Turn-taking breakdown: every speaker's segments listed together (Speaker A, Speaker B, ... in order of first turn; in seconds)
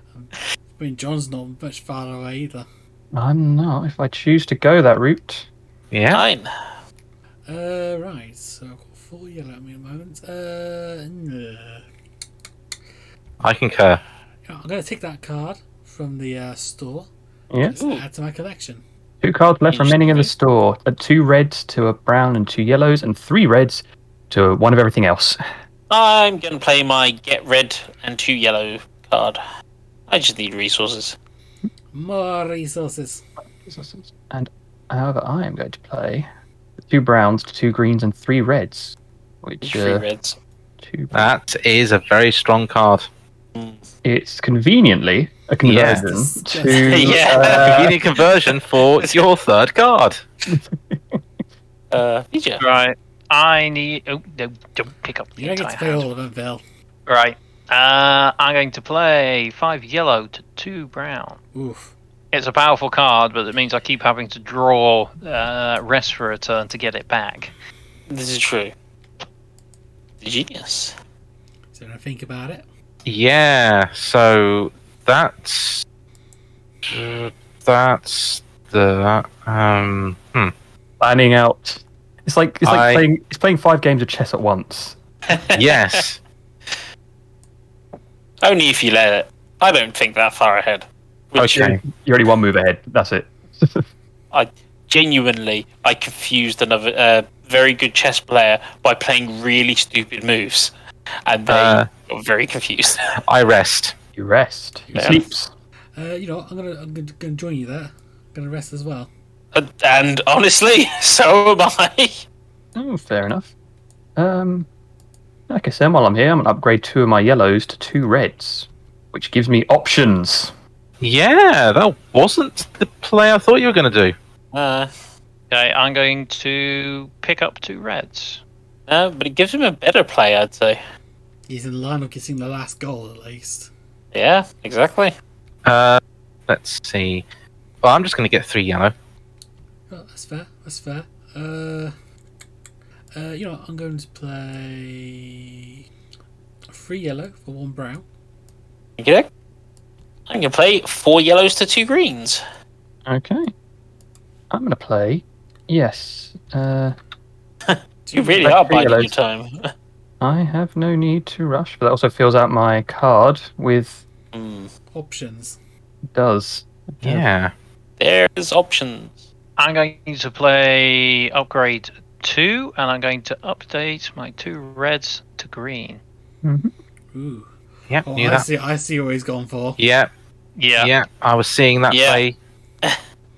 Speaker A: 0.1-2.7, 7.5-11.8, 14.5-17.1, 17.6-18.8, 31.9-33.2, 46.0-47.4, 55.4-56.6, 61.5-61.9, 71.7-72.7, 106.0-109.1, 131.5-133.7, 139.9-141.9, 143.1-145.8, 146.7-148.1, 158.1-159.0, 164.9-165.6, 177.1-177.5, 178.0-179.8
Speaker B: 3.1-5.5, 17.5-17.8, 19.2-25.4, 33.6-36.3, 36.8-40.0, 40.8-41.3, 44.0-47.9, 50.5-51.2, 81.0-85.0, 91.8-93.9, 104.2-105.5, 112.8-113.5, 114.2-114.7, 115.5-120.5, 153.1-153.5, 154.5-157.0, 158.4-159.1, 160.2-164.0, 166.1-167.3, 176.4-176.7
Speaker C: 5.9-6.2, 13.4-14.0, 41.1-43.1, 45.6-46.0, 47.4-50.2, 73.1-75.8, 76.8-80.5, 82.7-83.0, 85.5-86.2, 91.4-91.8, 101.5-101.9, 103.2-104.0, 121.0-124.2, 135.7-137.2, 137.8-138.9, 167.0-167.5, 177.9-178.5, 179.8-180.1, 180.8-182.4
Speaker D: 6.1-6.8, 17.8-18.0, 19.7-20.3, 25.9-29.4, 30.1-31.2, 39.6-40.4, 43.5-43.9, 46.9-49.2, 51.9-52.6, 68.1-68.7, 70.2-71.0, 85.3-86.0, 88.4-91.8, 94.3-100.7, 101.3-103.0, 104.9-105.2, 109.5-112.2, 124.5-124.9, 128.9-130.8, 134.1-135.1, 149.0-149.3, 150.3-152.4, 157.7-159.7, 164.3-164.7, 168.0-169.2, 181.9-182.2
Speaker E: 52.6-56.1, 57.1-61.4, 62.3-67.5, 125.5-128.4, 169.6-176.0, 180.6-180.9